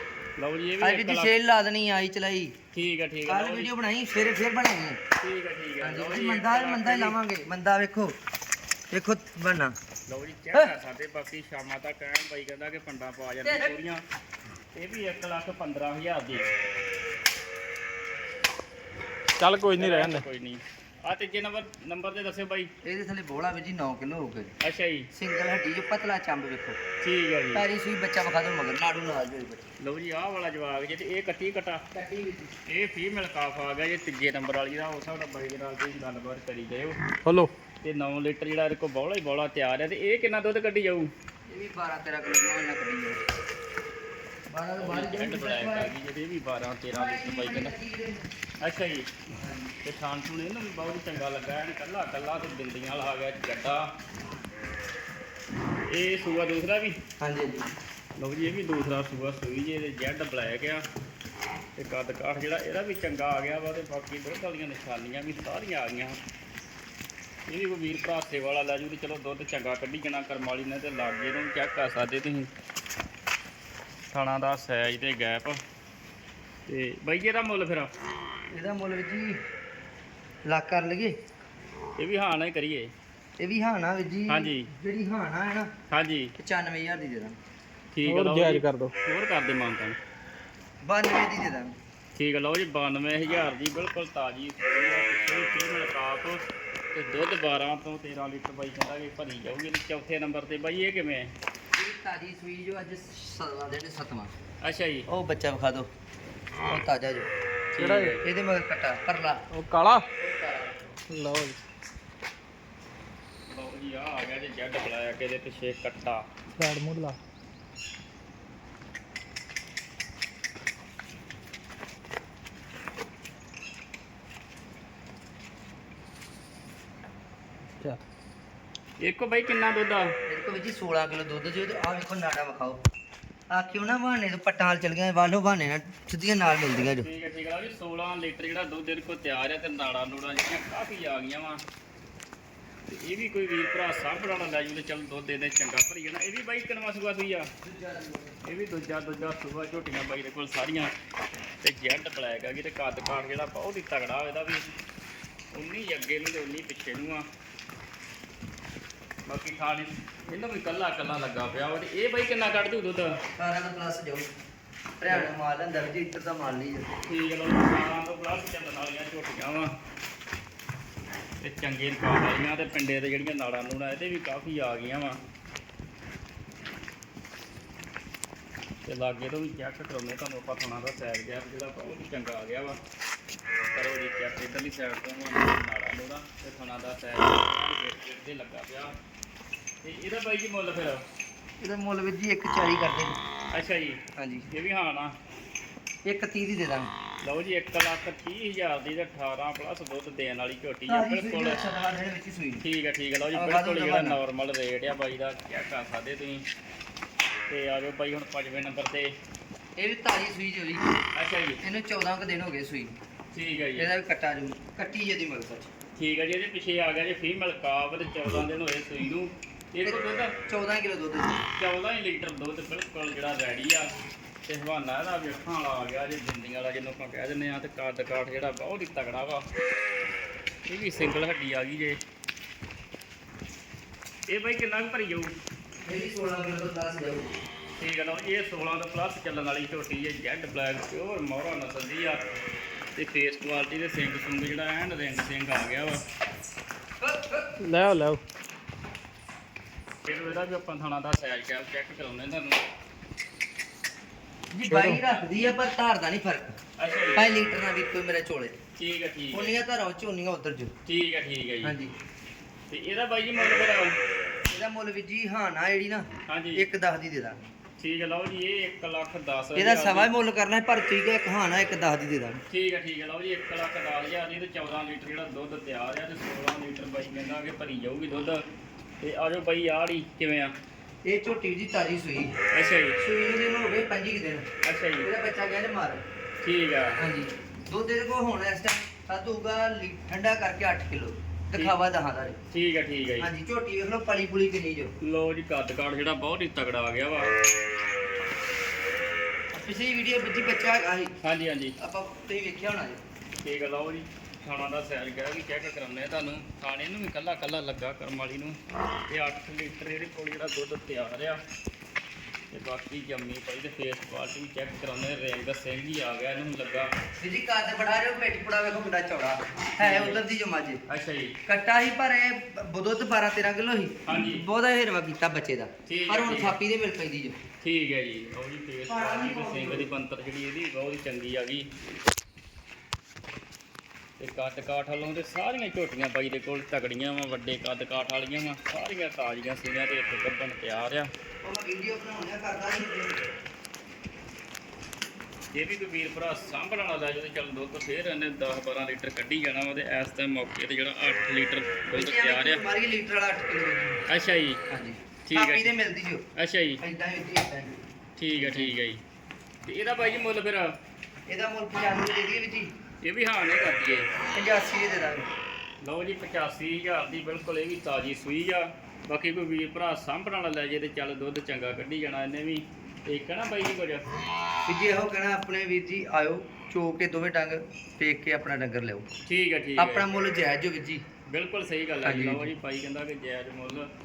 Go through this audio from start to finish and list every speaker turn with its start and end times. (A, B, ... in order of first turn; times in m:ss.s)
0:00.4-0:01.3 A
0:00.8-0:02.5 B
0:02.7-0:03.7 A
0:03.3-0:05.0 B
0:05.2-0:07.2 A
0:05.8-0:08.2 B
0:08.9-0:09.8 B
0:10.1-0:14.0 A
0:13.4-0:13.7 B
0:14.7-0:16.5 A
0:19.4-0:20.2 C
0:19.8-0:22.7 A
0:22.8-0:24.6 B
0:24.6-0:25.1 A
0:25.1-0:26.8 B
0:27.0-0:27.6 A
0:27.5-0:29.7 B
0:29.8-0:31.8 A
0:31.9-0:32.5 B
0:32.7-0:37.0 A
0:37.2-0:37.5 C
0:37.8-0:41.1 A
0:41.5-0:43.2 B
0:44.5-0:45.9 B
0:44.8-0:47.7 A
0:46.9-0:48.3 B
0:48.6-0:49.1 A
0:49.4-0:49.7 B
0:49.8-0:53.9 A
0:55.9-0:57.0 A
0:57.2-0:57.7 B
0:58.2-1:00.8 A
1:01.8-1:06.2 A
1:07.5-1:12.5 A
1:14.1-1:15.6 A
1:16.7-1:17.9 A
1:18.5-1:19.4 B
1:20.5-1:21.2 B
1:22.0-1:22.9 A
1:23.4-1:25.7 B
1:24.3-1:24.7 A
1:25.9-1:26.3 A
1:26.4-1:27.4 B
1:27.9-1:30.0 A
1:28.0-1:28.9 C
1:30.8-1:31.7 B
1:32.2-1:41.3 A
1:41.8-1:44.3 B
1:44.6-1:45.1 A
1:45.1-1:45.9 B
1:46.7-1:47.3 B
1:47.7-1:48.2 A
1:47.8-1:48.2 C
1:48.2-1:49.4 B
1:49.5-1:50.1 C
1:50.2-1:51.0 B
1:51.1-1:51.6 C
1:53.5-1:56.3 A
1:56.6-1:57.2 C
2:09.0-2:10.1 A
2:10.3-2:12.8 B
2:13.5-2:17.1 B
2:16.9-2:21.6 A
2:22.9-2:27.5 A
2:27.6-2:28.4 B
2:28.5-2:30.9 A
2:31.6-2:34.7 A
2:35.5-2:37.3 A
2:39.3-2:43.2 A
2:43.4-2:44.3 B
2:45.0-2:46.9 B
2:47.1-2:49.7 A
2:51.4-2:55.2 A
2:58.9-3:02.8 A
3:03.7-3:09.0 A
3:09.8-3:11.0 A
3:11.6-3:13.2 B
3:13.5-3:15.2 A
3:14.2-3:14.5 B
3:16.0-3:16.9 B
3:17.2-3:21.6 A
3:20.9-3:22.6 B
3:22.6-3:26.4 A
3:23.3-3:24.2 B
3:27.5-3:29.1 A
3:29.8-3:31.0 B
3:31.2-3:31.6 A
3:31.6-3:33.0 B
3:33.3-3:33.9 A
3:33.8-3:35.7 B
3:36.0-3:40.3 A
3:39.8-3:41.5 B
3:41.5-3:43.9 A
3:44.5-3:49.4 A
3:50.7-3:52.0 A
3:54.3-3:55.3 A
3:55.8-3:57.3 B
3:57.8-4:02.2 A
4:03.0-4:06.0 A
4:07.0-4:07.5 B
4:07.6-4:08.2 C
4:10.0-4:12.6 A
4:14.5-4:16.6 B
4:14.7-4:15.0 C
4:16.8-4:17.3 A
4:17.2-4:18.6 B
4:18.8-4:19.6 A
4:19.3-4:20.7 B
4:20.9-4:21.8 A
4:21.6-4:21.9 B
4:22.7-4:24.0 A
4:24.5-4:27.5 B
4:26.3-4:26.6 A
4:27.8-4:30.1 A
4:29.6-4:32.4 B
4:32.5-4:38.4 A
4:39.0-4:40.6 A
4:41.0-4:42.4 B
4:42.5-4:43.0 A
4:43.0-4:44.5 B
4:44.6-4:45.1 A
4:45.0-4:46.0 B
4:46.4-4:47.0 A
4:47.0-4:52.4 B
4:52.5-4:53.3 A
4:53.2-4:54.9 B
4:55.0-4:57.3 A
4:59.5-5:01.2 B
5:01.2-5:01.8 A
5:01.8-5:03.0 B
5:03.4-5:11.4 A
5:12.5-5:16.9 A
5:17.2-5:20.8 B
5:19.8-5:20.2 A
5:20.9-5:21.4 A
5:21.5-5:27.4 B
5:24.1-5:24.4 A
5:25.9-5:26.6 A
5:27.6-5:31.7 A
5:28.9-5:29.9 B
5:34.2-5:41.1 A
5:41.4-5:43.2 B
5:45.5-5:52.6 A
5:51.9-5:54.0 B
5:54.1-5:54.6 A
5:54.7-5:56.2 B
5:55.3-5:55.7 A
5:56.4-5:56.8 A
5:56.8-5:57.8 B
5:58.2-5:59.0 A
5:58.4-5:58.8 B
5:59.6-6:00.8 A
6:01.3-6:02.7 B
6:03.0-6:04.1 A
6:04.3-6:05.3 B
6:05.8-6:14.1 A
6:14.6-6:19.1 B
6:19.3-6:20.1 A
6:19.8-6:21.1 B
6:21.3-6:23.9 A
6:22.0-6:22.5 B